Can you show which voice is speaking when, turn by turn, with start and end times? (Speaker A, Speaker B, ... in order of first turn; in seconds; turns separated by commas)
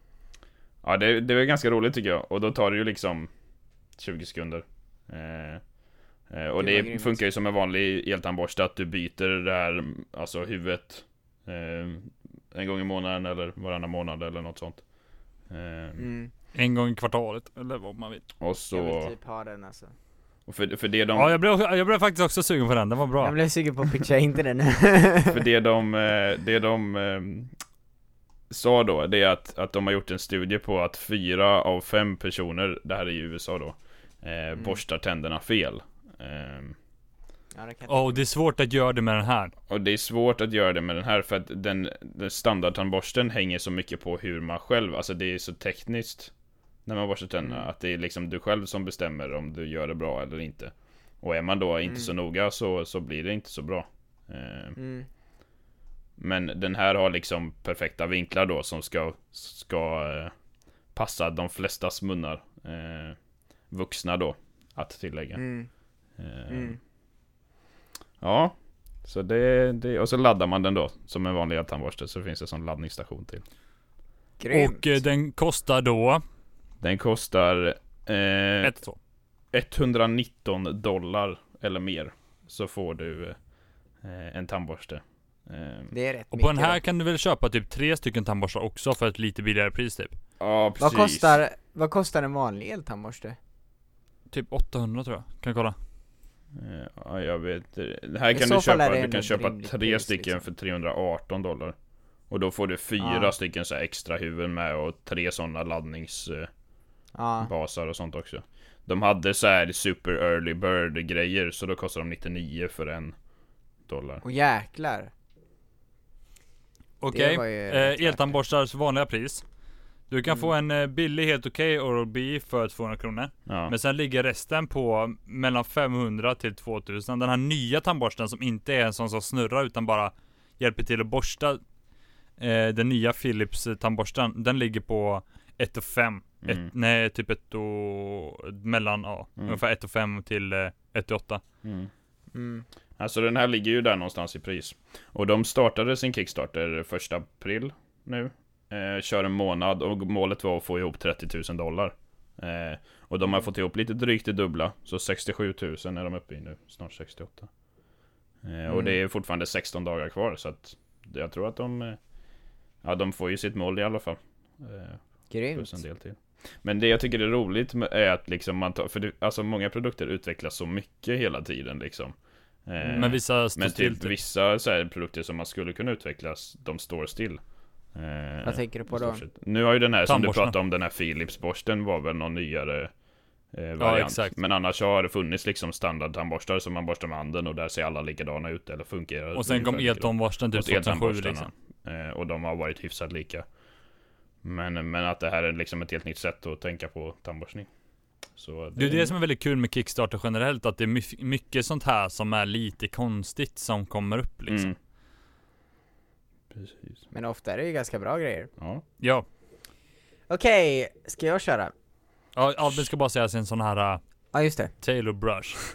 Speaker A: 0.8-3.3, Speaker A: 4.0-5.6, Speaker A: 6.3-14.8, Speaker B: 6.6-7.2, Speaker A: 15.5-16.0, Speaker B: 16.0-16.3, Speaker C: 16.5-18.2, Speaker A: 18.4-19.1, Speaker B: 18.7-19.9, Speaker A: 20.5-21.3, Speaker C: 21.1-23.3, Speaker B: 23.2-25.4, Speaker A: 25.3-27.5, Speaker A: 28.5-36.8, Speaker B: 34.5-34.8, Speaker B: 37.5-38.2, Speaker C: 37.9-39.5, Speaker A: 39.7-46.3, Speaker A: 46.9-54.8, Speaker B: 47.4-47.7, Speaker B: 51.9-52.1, Speaker B: 54.8-55.1, Speaker A: 56.2-60.3, Speaker A: 60.9-63.2, Speaker A: 63.7-65.4, Speaker B: 65.3-65.7, Speaker A: 66.2-66.8, Speaker B: 66.5-66.8, Speaker A: 68.2-73.4, Speaker B: 74.4-75.0, Speaker C: 74.5-76.2, Speaker A: 76.8-78.7, Speaker C: 78.6-79.0, Speaker A: 79.5-83.4, Speaker A: 84.0-85.9, Speaker B: 85.9-86.8, Speaker C: 86.3-90.2, Speaker A: 90.4-91.4, Speaker B: 90.8-93.4, Speaker C: 94.3-95.8, Speaker A: 96.5-101.8, Speaker B: 98.3-100.4, Speaker A: 102.3-106.5, Speaker B: 103.0-103.3, Speaker B: 107.1-107.5, Speaker A: 107.4-113.2, Speaker A: 113.9-114.2, Speaker B: 114.2-115.1, Speaker C: 117.0-119.4, Speaker B: 117.1-118.3, Speaker C: 120.1-131.6, Speaker B: 120.3-120.5, Speaker A: 123.5-123.7, Speaker C: 132.4-141.4, Speaker A: 136.4-136.7, Speaker A: 141.6-141.9, Speaker B: 142.3-142.6, Speaker A: 143.0-157.5, Speaker A: 158.4-162.0, Speaker B: 158.7-159.0, Speaker A: 162.8-165.0, Speaker B: 165.3-165.8, Speaker A: 165.5-182.9, Speaker C: 172.9-174.1, Speaker B: 178.4-179.2, Speaker C: 180.1-180.6, Speaker A: 183.5-193.5, Speaker C: 183.8-184.4, Speaker C: 189.4-191.5, Speaker A: 194.4-197.7, Speaker A: 198.3-199.1, Speaker C: 198.8-204.7, Speaker A: 204.5-204.7, Speaker A: 206.5-207.0, Speaker B: 207.1-208.5, Speaker A: 208.6-208.8, Speaker C: 209.0-209.2, Speaker B: 210.3-211.7, Speaker C: 212.3-214.0, Speaker B: 214.3-214.7, Speaker C: 214.8-215.6